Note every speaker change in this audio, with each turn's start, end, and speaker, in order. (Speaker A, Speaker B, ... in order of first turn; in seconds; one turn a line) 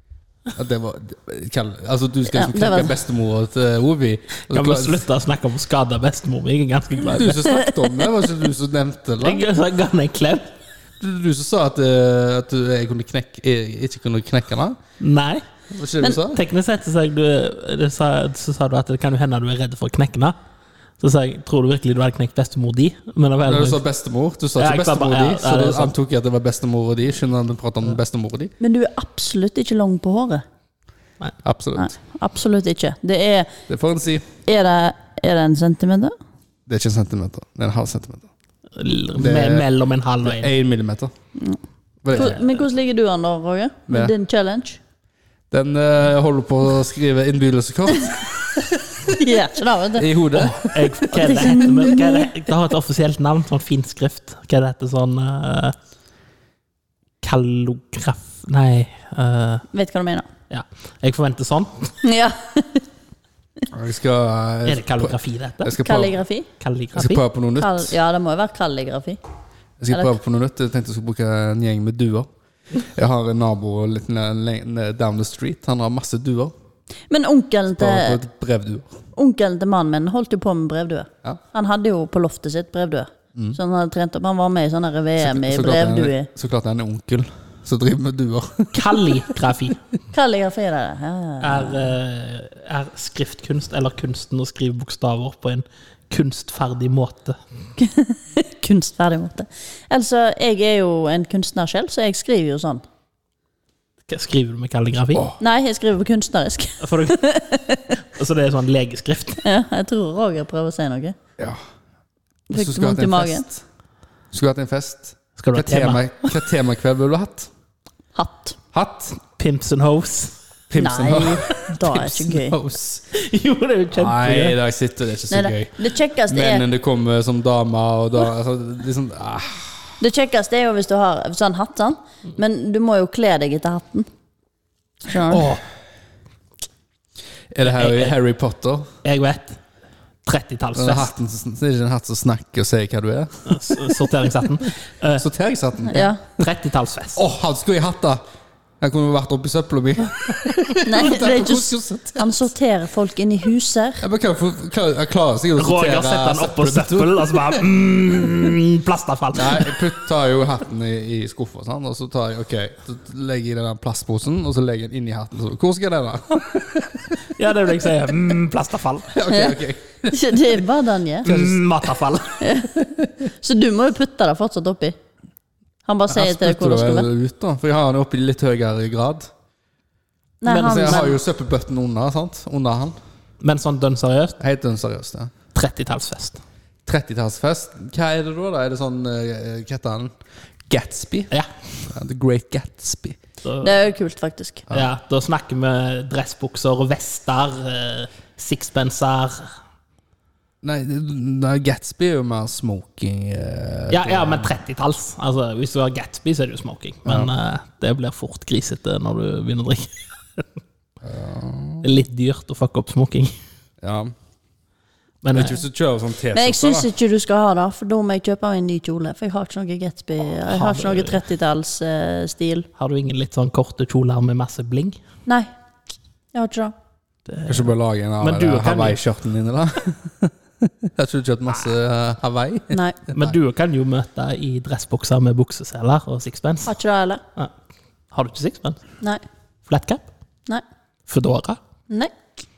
Speaker A: 0.6-5.1
Speaker B: 2.3-3.0
Speaker C: 4.5-7.5
Speaker A: 7.0-9.5
Speaker B: 7.4-8.1
Speaker C: 9.2-10.5
Speaker A: 11.0-14.8
Speaker C: 15.0-15.4
Speaker A: 15.7-16.4
Speaker C: 16.3-20.4
Speaker C: 21.0-23.8
Speaker A: 23.4-28.5
Speaker C: 24.6-25.9
Speaker B: 28.6-30.4
Speaker A: 31.4-31.9
Speaker B: 31.8-33.5
Speaker A: 33.7-34.3
Speaker B: 34.5-36.1
Speaker A: 36.7-38.3
Speaker C: 38.8-40.5
Speaker A: 39.2-39.7
Speaker A: 40.2-41.1
Speaker A: 42.0-42.4
Speaker B: 42.1-44.8
Speaker C: 42.2-42.4
Speaker A: 43.9-44.1
Speaker A: 45.5-49.2
Speaker B: 49.1-50.1
Speaker A: 49.9-51.5
Speaker C: 50.4-55.8
Speaker B: 51.1-52.3
Speaker C: 57.2-59.7
Speaker B: 59.7-60.3
Speaker C: 60.5-61.9
Speaker B: 62.0-62.9
Speaker A: 63.7-66.2
Speaker C: 64.7-65.8
Speaker B: 65.8-66.5
Speaker C: 66.6-67.2
Speaker A: 66.9-68.0
Speaker B: 67.6-69.2
Speaker A: 69.8-76.5
Speaker B: 77.1-78.2
Speaker A: 77.8-79.0
Speaker B: 79.2-86.3
Speaker A: 85.2-89.3
Speaker C: 88.7-89.8
Speaker B: 90.1-91.9
Speaker C: 91.4-97.4
Speaker B: 97.8-102.8
Speaker C: 104.1-105.3
Speaker B: 105.4-108.0
Speaker C: 106.8-107.2
Speaker C: 108.1-109.4
Speaker B: 109.4-111.2
Speaker B: 112.5-113.5
Speaker A: 112.5-113.6
Speaker A: 114.3-117.5
Speaker C: 115.4-116.4
Speaker B: 118.2-118.6
Speaker A: 118.7-119.2
Speaker C: 119.2-120.4
Speaker A: 120.7-123.0
Speaker B: 120.8-122.6
Speaker C: 123.1-124.6
Speaker A: 123.9-129.9
Speaker B: 125.3-126.7
Speaker B: 130.0-134.1
Speaker B: 135.1-135.5
Speaker A: 135.3-135.6
Speaker A: 137.5-138.9
Speaker C: 137.6-138.2
Speaker C: 139.0-139.6
Speaker C: 140.3-141.1
Speaker A: 140.8-144.1
Speaker C: 143.5-145.2
Speaker A: 144.6-146.1
Speaker B: 145.9-146.2
Speaker C: 146.3-147.2
Speaker A: 147.2-148.2
Speaker A: 148.8-152.4
Speaker B: 150.8-154.0
Speaker A: 154.0-157.7
Speaker C: 155.6-159.8
Speaker A: 159.3-167.3
Speaker C: 167.3-169.2
Speaker A: 169.1-170.6
Speaker B: 169.3-171.5
Speaker C: 171.2-172.4
Speaker A: 171.3-171.5
Speaker B: 172.4-172.8
Speaker B: 173.4-175.0
Speaker B: 175.9-177.1
Speaker A: 176.1-179.3
Speaker B: 180.4-181.2
Speaker C: 180.5-181.2
Speaker A: 180.6-183.0
Speaker C: 183.4-184.4
Speaker A: 184.4-185.3
Speaker C: 185.6-186.4
Speaker A: 186.9-190.2
Speaker A: 190.7-191.3
Speaker A: 191.8-193.2
Speaker C: 193.4-193.8
Speaker B: 193.6-194.6
Speaker C: 194.7-199.6
Speaker A: 200.6-204.5
Speaker C: 203.9-210.4
Speaker A: 207.1-207.3
Speaker A: 211.0-211.9
Speaker C: 211.8-213.4
Speaker A: 213.8-214.1
Speaker C: 215.2-215.6
Speaker A: 215.3-216.9
Speaker B: 216.3-222.7
Speaker C: 220.5-221.2
Speaker C: 222.8-225.0
Speaker B: 226.3-226.7
Speaker C: 227.3-229.0
Speaker A: 227.5-233.4
Speaker B: 232.7-233.0
Speaker C: 233.1-236.8
Speaker B: 236.7-237.2
Speaker C: 238.1-238.9
Speaker C: 239.7-240.1
Speaker C: 241.1-241.6